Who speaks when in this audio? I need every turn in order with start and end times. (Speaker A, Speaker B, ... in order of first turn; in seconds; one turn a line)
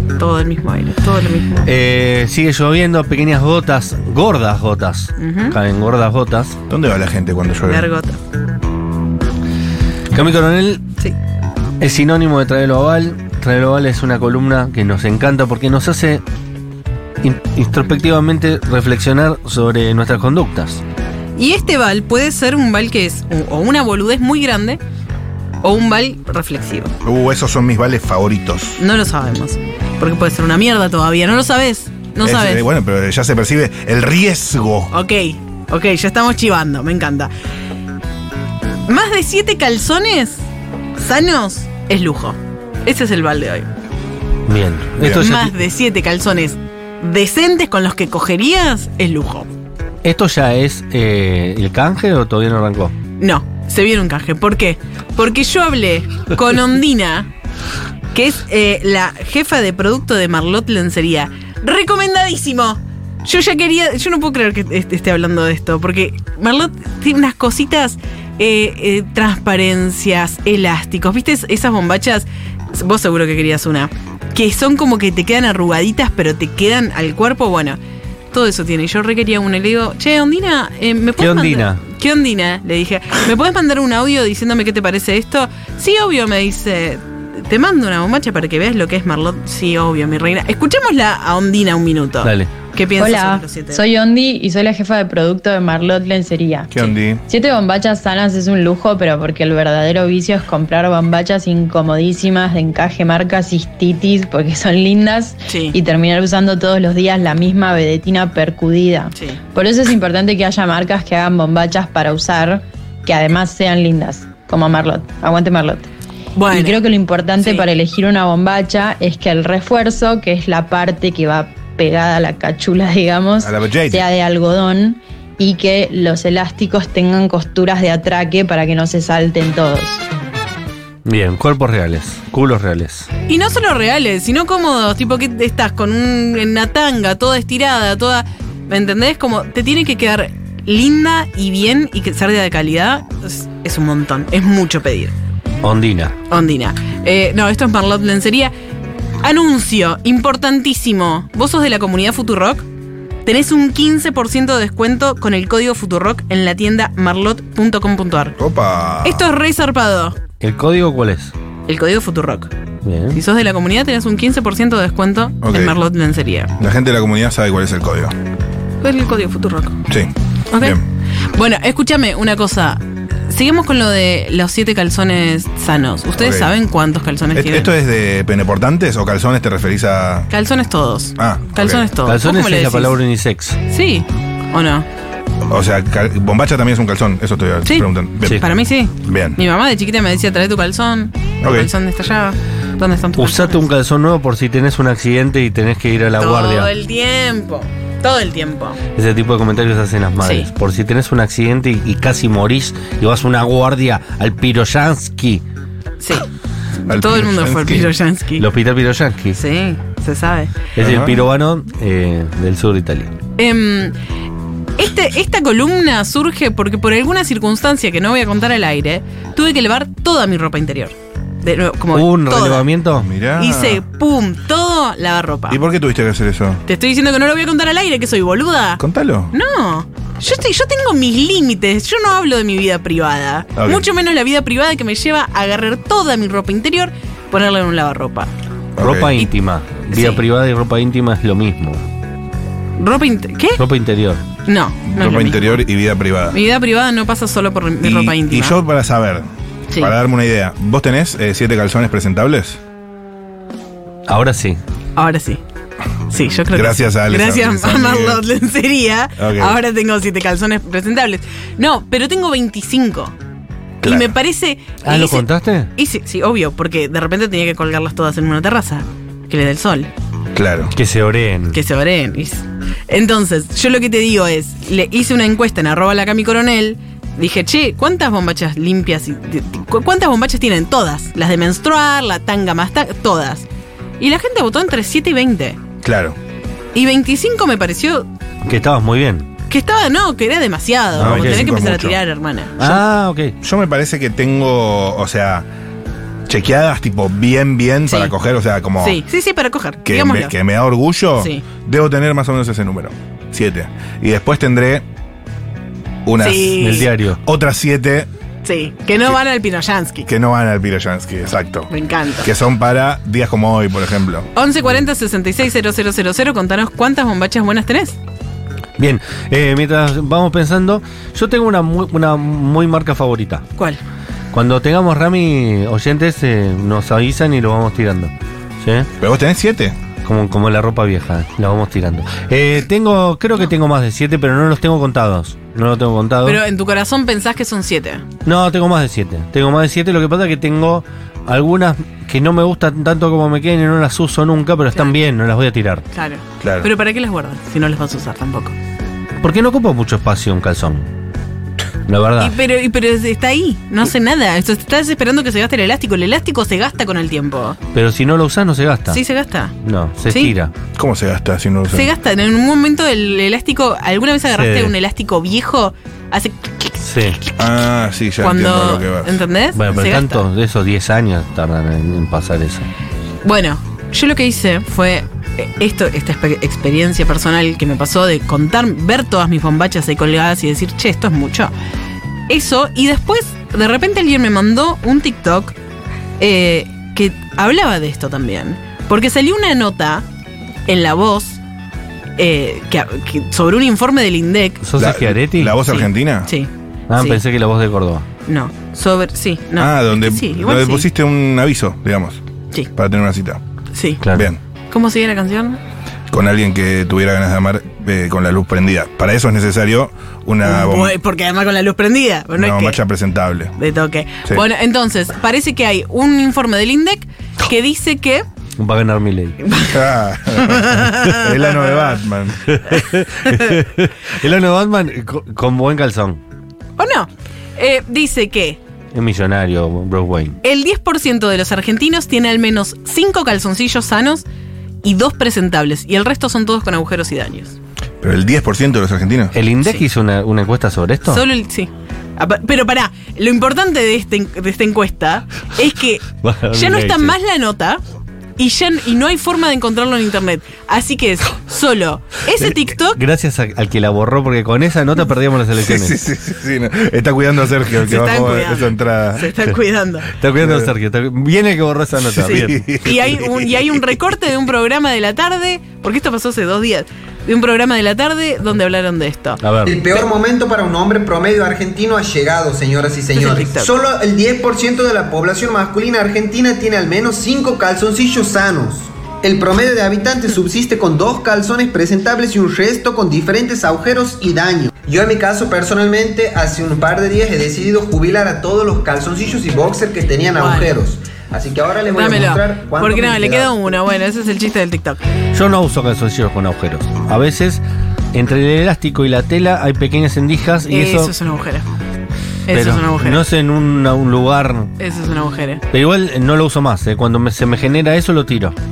Speaker A: 0.1-1.7
Speaker B: 1.6-6.6
Speaker A: 5.2-5.5
Speaker C: 6.7-7.9
Speaker A: 7.6-8.2
Speaker B: 10.1-10.8
Speaker B: 11.8-16.2
Speaker B: 17.2-20.8
Speaker A: 21.4-24.8
Speaker A: 25.6-26.9
Speaker C: 27.0-28.8
Speaker A: 28.8-32.7
Speaker C: 32.2-34.9
Speaker A: 34.9-37.3
Speaker A: 38.9-40.4
Speaker A: 41.0-43.7
Speaker B: 44.5-45.6
Speaker C: 45.0-45.2
Speaker A: 45.2-49.5
Speaker B: 50.0-52.9
Speaker A: 53.2-57.3
Speaker A: 58.1-77.8
Speaker A: 78.3-93.8
Speaker B: 81.2-81.8
Speaker B: 92.2-92.6
Speaker D: 93.0-96.7
Speaker C: 96.7-97.2
Speaker D: 97.3-115.9
Speaker A: 105.5-105.8
Speaker A: 116.3-116.8
Speaker D: 116.5-130.0
Speaker C: 123.4-124.1
Speaker B: 131.0-133.1
Speaker A: 133.3-145.1
Speaker B: 145.6-146.1
Speaker A: 146.3-148.5
Speaker A: 149.2-152.7
Speaker A: 153.2-158.3
Speaker C: 158.4-159.3
Speaker A: 159.0-160.2
Speaker B: 160.4-161.3
Speaker A: 161.7-162.5
Speaker B: 162.8-163.2
Speaker A: 163.1-166.5
Speaker C: 165.4-165.8
Speaker C: 166.6-168.1
Speaker A: 168.8-169.8
Speaker C: 169.9-170.8
Speaker A: 170.5-170.8
Speaker A: 171.3-177.7
Speaker C: 176.2-176.5
Speaker C: 177.3-180.3
Speaker A: 180.3-183.0
Speaker C: 181.2-181.9
Speaker B: 182.0-183.6
Speaker A: 183.7-184.8
Speaker C: 185.5-188.5
Speaker A: 187.6-193.6
Speaker C: 189.0-189.4
Speaker C: 191.4-191.7
Speaker B: 193.2-196.7
Speaker A: 196.2-198.8
Speaker B: 198.9-205.4
Speaker A: 200.2-200.5
Speaker A: 206.0-206.3
Speaker A: 206.8-208.4
Speaker C: 206.9-207.9
Speaker B: 208.4-209.4
Speaker A: 209.3-210.7
Speaker B: 210.7-213.1
Speaker C: 210.8-211.2
Speaker A: 213.4-213.9
Speaker A: 214.8-222.7
Speaker B: 221.9-223.1
Speaker C: 223.0-223.8
Speaker A: 223.3-225.6
Speaker C: 225.5-226.6
Speaker A: 226.7-238.3
Speaker C: 228.8-229.3
Speaker C: 233.6-233.8
Speaker C: 238.8-239.2
Speaker B: 238.8-241.8
Speaker A: 239.9-240.2
Speaker A: 242.8-243.6
Speaker B: 243.6-244.2
Speaker A: 244.4-245.6
Speaker C: 244.9-246.4
Speaker A: 246.3-248.6
Speaker C: 247.8-252.6
Speaker B: 254.1-254.6
Speaker A: 254.9-255.4
Speaker A: 256.1-263.1
Speaker C: 256.5-258.2
Speaker C: 259.2-259.6
Speaker C: 263.8-264.1
Speaker A: 263.8-269.9
Speaker B: 264.8-265.7
Speaker C: 270.3-270.7
Speaker B: 270.7-271.6
Speaker A: 271.5-283.5
Speaker A: 284.0-285.6
Speaker C: 285.8-286.2
Speaker A: 286.7-288.1
Speaker B: 288.4-289.3
Speaker A: 289.5-292.8
Speaker C: 290.9-292.0
Speaker B: 291.0-291.6
Speaker B: 292.6-293.3
Speaker C: 293.4-295.5
Speaker C: 296.3-299.0
Speaker A: 297.9-298.1
Speaker A: 298.8-300.3
Speaker C: 299.8-304.8
Speaker A: 301.2-301.4
Speaker C: 306.0-306.7
Speaker A: 306.2-306.9
Speaker B: 306.6-307.2
Speaker C: 307.2-308.1
Speaker A: 308.4-310.1
Speaker C: 310.0-311.7
Speaker A: 311.7-312.3
Speaker C: 312.2-314.3
Speaker A: 314.3-318.0
Speaker B: 318.8-323.4
Speaker A: 323.6-323.8
Speaker B: 324.3-328.9
Speaker C: 329.0-329.8
Speaker B: 330.0-336.4
Speaker A: 336.2-338.1
Speaker B: 338.2-345.8
Speaker A: 345.9-348.5
Speaker C: 346.4-346.7
Speaker B: 349.2-350.9
Speaker B: 351.9-352.4
Speaker A: 352.2-357.6
Speaker B: 357.7-359.0
Speaker A: 358.9-359.5
Speaker B: 359.6-360.5
Speaker A: 360.1-360.3
Speaker C: 360.7-361.9
Speaker A: 361.7-367.4
Speaker B: 364.3-364.7
Speaker B: 366.8-367.2
Speaker C: 367.4-369.2
Speaker A: 368.2-370.2
Speaker B: 369.5-372.7
Speaker A: 373.2-381.5
Speaker A: 382.3-385.5
Speaker A: 386.2-390.0
Speaker A: 390.7-391.4
Speaker A: 392.2-394.7
Speaker B: 394.6-395.6
Speaker C: 394.8-396.3
Speaker A: 395.6-397.2
Speaker B: 396.9-398.1
Speaker A: 398.3-400.9
Speaker C: 399.6-402.2
Speaker C: 402.8-403.4
Speaker A: 403.7-404.0
Speaker B: 404.0-404.3
Speaker C: 404.1-404.4
Speaker A: 404.7-405.6
Speaker C: 406.1-410.9
Speaker A: 410.4-412.8
Speaker C: 412.4-413.5
Speaker A: 413.6-418.2
Speaker B: 418.6-419.4
Speaker A: 419.4-422.0
Speaker C: 419.7-422.6
Speaker B: 422.4-426.2
Speaker A: 426.8-428.6
Speaker B: 428.9-430.4
Speaker A: 430.4-434.2
Speaker A: 434.8-437.6
Speaker C: 438.0-439.3
Speaker B: 439.3-441.2
Speaker A: 441.1-447.8
Speaker B: 446.2-447.1
Speaker A: 448.4-453.0
Speaker B: 452.4-456.0
Speaker C: 455.5-459.3
Speaker A: 457.8-460.2
Speaker B: 460.1-462.8
Speaker C: 460.4-460.7
Speaker C: 461.9-463.5
Speaker A: 462.2-470.1
Speaker B: 469.4-469.8
Speaker E: 469.6-493.6
Speaker A: 473.1-473.7
Speaker A: 490.4-490.8
Speaker A: 491.9-495.0
Speaker B: 495.3-501.1
Speaker A: 500.7-501.6
Speaker A: 502.5-503.2
Speaker B: 502.5-504.7
Speaker A: 504.8-505.6
Speaker B: 505.7-508.6